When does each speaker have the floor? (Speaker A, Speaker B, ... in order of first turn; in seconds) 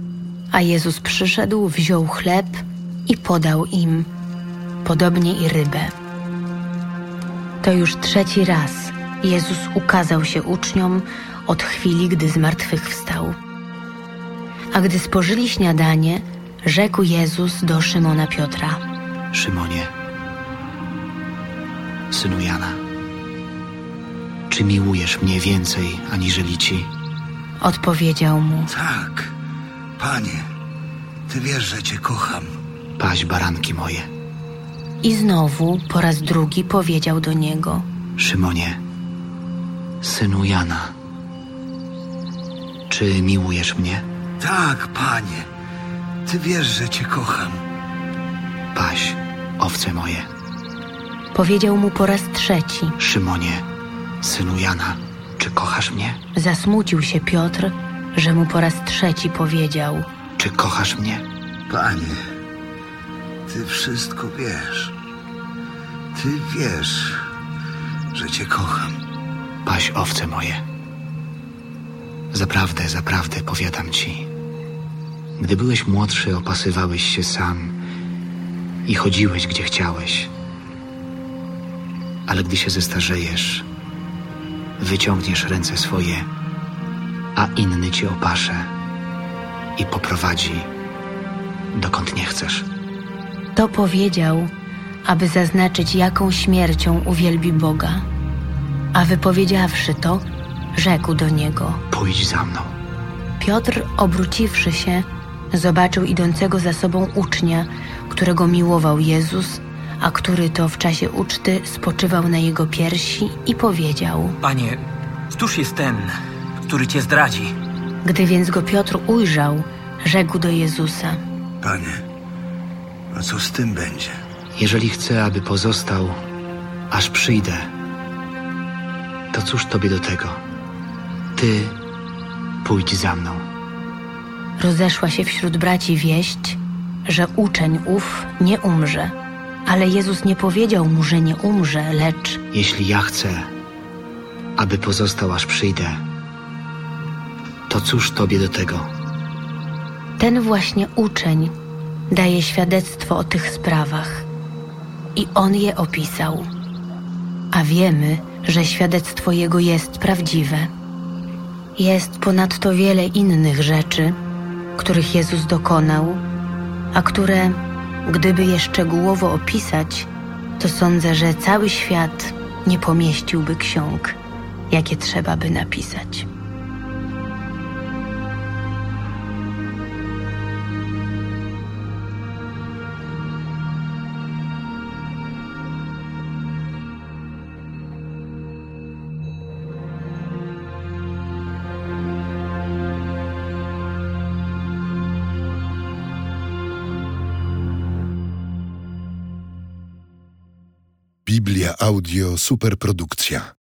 Speaker A: 0.5-4.1, 4.8-5.9, 7.6-13.4, 14.7-18.8, 27.6-28.7, 35.0-37.8, 51.3-53.0, 56.3-60.1, 93.5-94.5, 95.0-98.0, 98.9-101.8, 103.4-114.4, 118.0-121.2, 134.6-139.1, 139.7-142.4, 150.2-151.5, 152.1-154.2, 155.1-156.5, 157.5-160.7, 161.8-164.2, 164.8-166.2, 166.9-174.2, 174.7-176.3
Speaker B: 19.3-19.9, 22.1-22.8, 24.5-26.9, 33.0-34.1, 38.2-38.8, 40.0-40.9, 42.9-44.0, 48.7-50.3, 53.0-53.6, 54.2-56.2, 60.4-61.2, 69.6-70.6, 72.3-74.3, 75.4-77.7, 78.8-80.3, 82.3-83.7, 84.8-86.3, 87.3-88.7, 89.8-90.7, 91.7-92.7, 101.9-102.7, 124.5-126.2, 126.9-127.7, 129.3-130.4, 131.3-131.8, 132.6-133.4, 142.5-143.5, 144.6-146.0, 147.7-148.9
Speaker C: 28.7-29.3, 30.0-30.4, 31.3-32.5, 44.4-45.5, 46.2-47.6, 61.7-62.2, 63.5-64.9, 66.1-67.2, 68.1-69.0, 121.6-122.0, 123.1-124.2
Speaker D: 114.4-114.8, 115.3-117.5
Speaker E: 201.2-203.5